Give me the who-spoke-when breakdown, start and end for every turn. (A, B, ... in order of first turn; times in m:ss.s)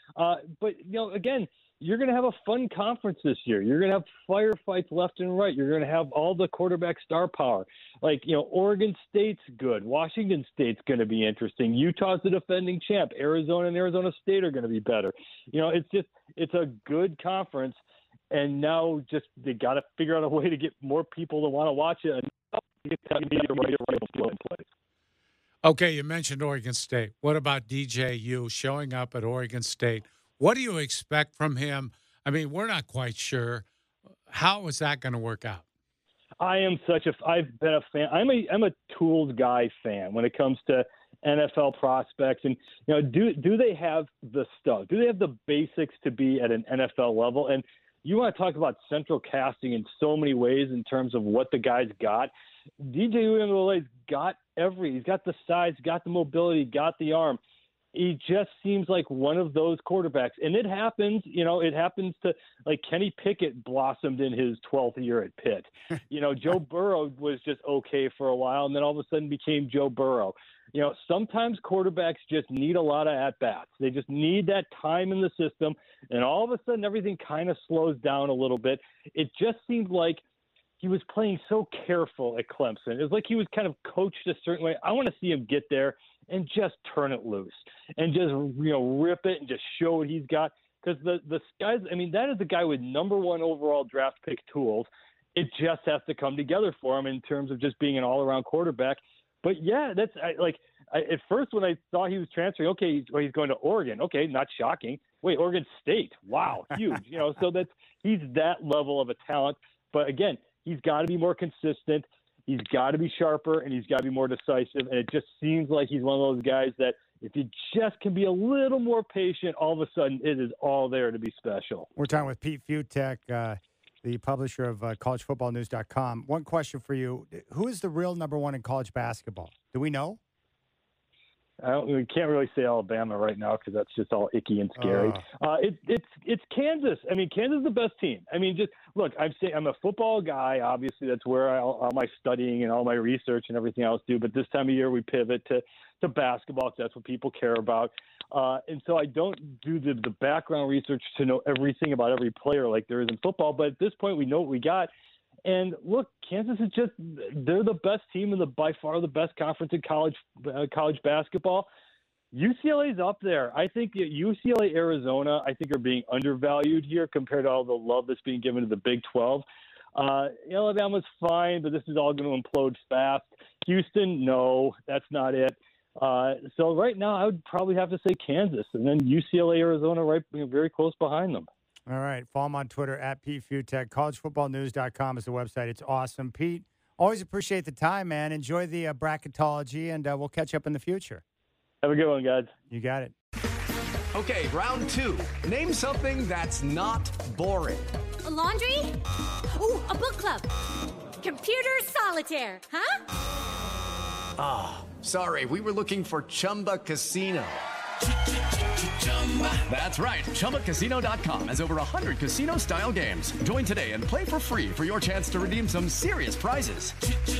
0:00.2-0:17.8 A
0:18.3-0:24.6 A
0:25.6-0:33.7 B
0:34.3-0:35.6 B
0:36.4-0:57.4 A
0:57.9-1:20.2 A
1:20.8-2:01.9 A
2:02.0-2:10.2 C
2:11.6-2:34.9 A
2:14.8-2:15.2 C
2:35.4-2:41.7 A
2:42.3-3:01.5 A
3:01.9-3:11.2 C
3:11.8-3:12.5 A
3:12.7-3:13.1 C
3:14.1-3:17.9 D
3:18.2-3:19.0 E
3:19.6-3:20.5 E
3:21.2-3:23.0 E
3:24.4-3:27.6 D
3:29.1-3:37.0 D